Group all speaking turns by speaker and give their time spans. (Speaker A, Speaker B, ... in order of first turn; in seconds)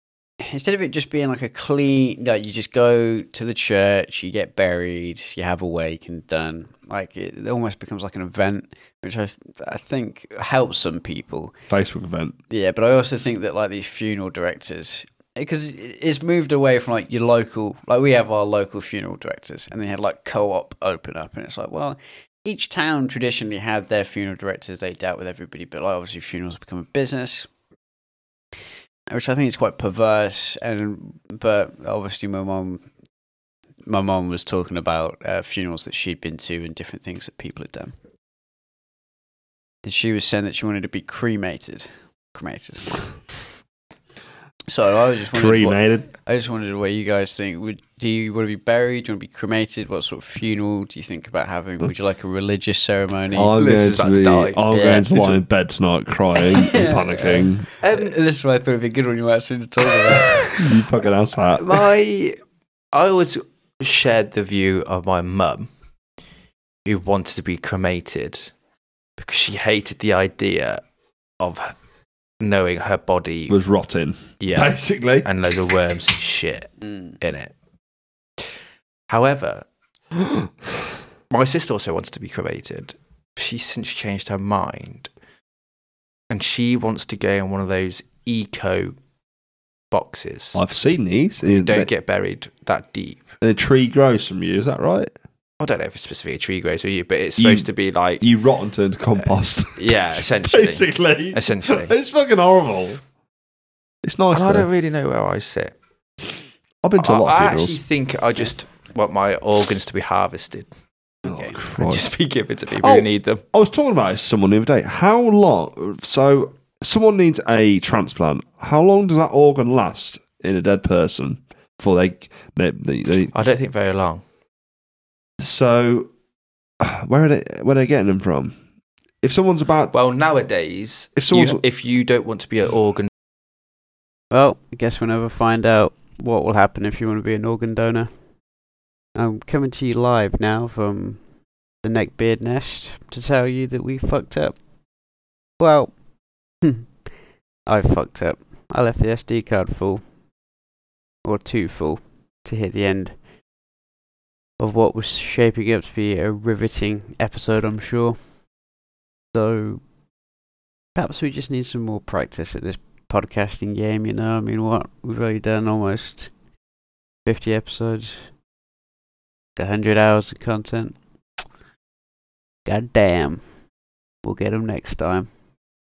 Speaker A: 0.4-11.5, 12.5-27.5, 29.1-32.9, 33.9-37.9, 39.8-43.1, 44.7-53.5, 54.7-55.1, 56.4-60.6, 111.3-111.5, 134.3-138.1, 139.2-141.2, 141.8-144.6, 145.6-145.9, 146.6-146.9, 147.7-150.0, 151.2-153.2, 154.6-158.2, 159.3-159.8, 160.9-166.3, 167.2-168.2, 169.6-171.0, 172.7-173.4, 174.2-175.3
Speaker B: 11.7-12.3, 45.3-46.1, 53.3-57.7, 60.5-61.7, 73.5-75.3, 90.5-91.9, 93.4-95.1, 97.4-97.7, 98.2-103.0, 104.0-104.7, 106.8-107.8, 111.2-112.1, 112.8-123.3, 125.4-126.1, 126.8-128.6, 129.2-129.9, 131.2-131.6
Speaker C: 53.6-55.4, 57.8-58.1, 61.6-62.4, 62.9-65.7, 66.8-68.5, 69.2-70.8, 71.4-71.7, 72.4-73.5, 74.4-77.5, 79.1-79.7, 81.3-85.1, 86.3-89.0, 89.9-90.6, 91.5-93.2, 95.6-98.2, 99.8-101.9, 104.3-105.8, 107.0-110.7, 111.8-113.4, 123.3-124.2, 129.9-133.1